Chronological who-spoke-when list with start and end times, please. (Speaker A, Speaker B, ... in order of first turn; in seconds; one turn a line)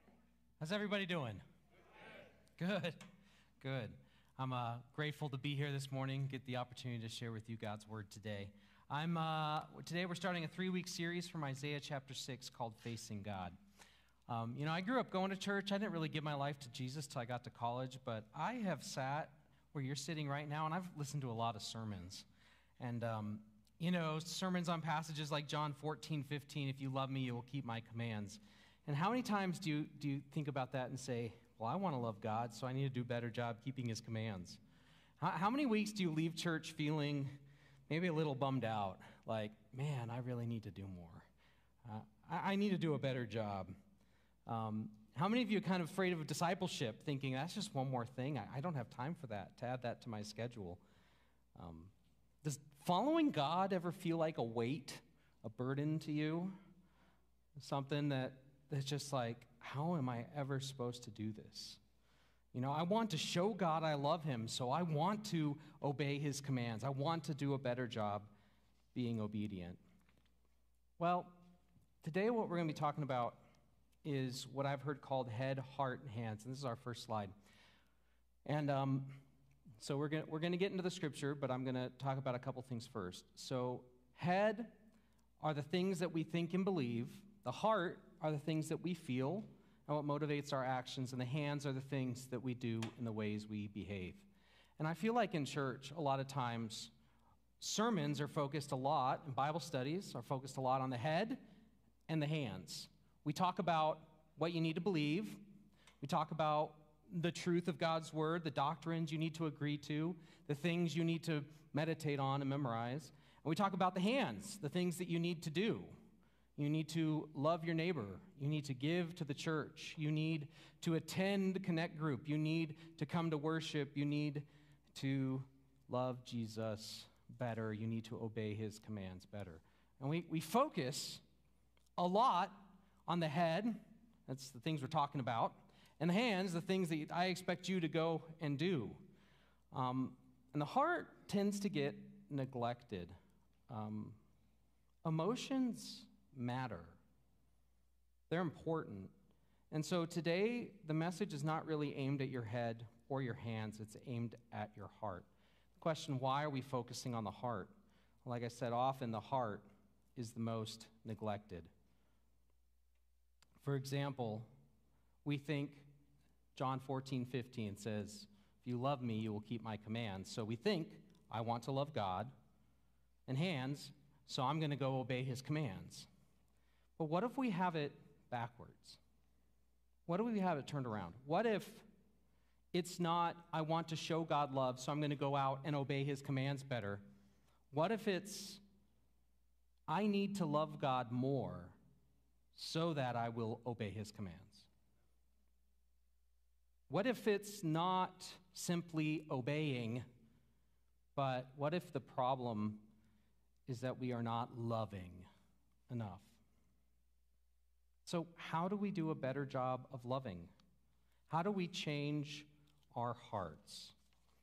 Speaker A: 0.6-1.4
Speaker A: 2.6-3.0
Speaker A: 3.6-13.6
Speaker A: 14.3-22.3
Speaker A: 22.8-34.6
Speaker A: 35.2-41.3
Speaker A: 41.8-43.8
Speaker A: 44.5-50.8
Speaker A: 51.5-51.9
Speaker A: 52.4-56.6
Speaker A: 57.6-61.8
Speaker A: 62.5-68.3
Speaker A: 68.9-69.8
Speaker A: 71.0-71.4
Speaker A: 72.0-73.4
Speaker A: 74.0-77.3
Speaker A: 78.5-79.2
Speaker A: 79.8-84.7
Speaker A: 85.4-94.3
Speaker A: 94.8-96.9
Speaker A: 97.6-101.4
Speaker A: 102.1-105.4
Speaker A: 106.0-115.9
Speaker A: 116.6-131.2
Speaker A: 132.0-139.0
Speaker A: 139.7-143.2
Speaker A: 143.7-144.2
Speaker A: 145.0-147.0
Speaker A: 148.3-149.1
Speaker A: 149.7-157.7
Speaker A: 158.2-161.7
Speaker A: 163.6-164.5
Speaker A: 165.2-165.9
Speaker A: 166.6-172.3
Speaker A: 173.3-176.1
Speaker A: 177.0-179.0
Speaker A: 180.1-181.9
Speaker A: 182.7-187.0
Speaker A: 187.7-188.6
Speaker A: 189.9-191.8
Speaker A: 192.5-194.7
Speaker A: 196.9-200.1
Speaker A: 201.2-202.9
Speaker A: 203.7-205.3
Speaker A: 205.9-206.4
Speaker A: 208.1-210.5
Speaker A: 211.3-213.9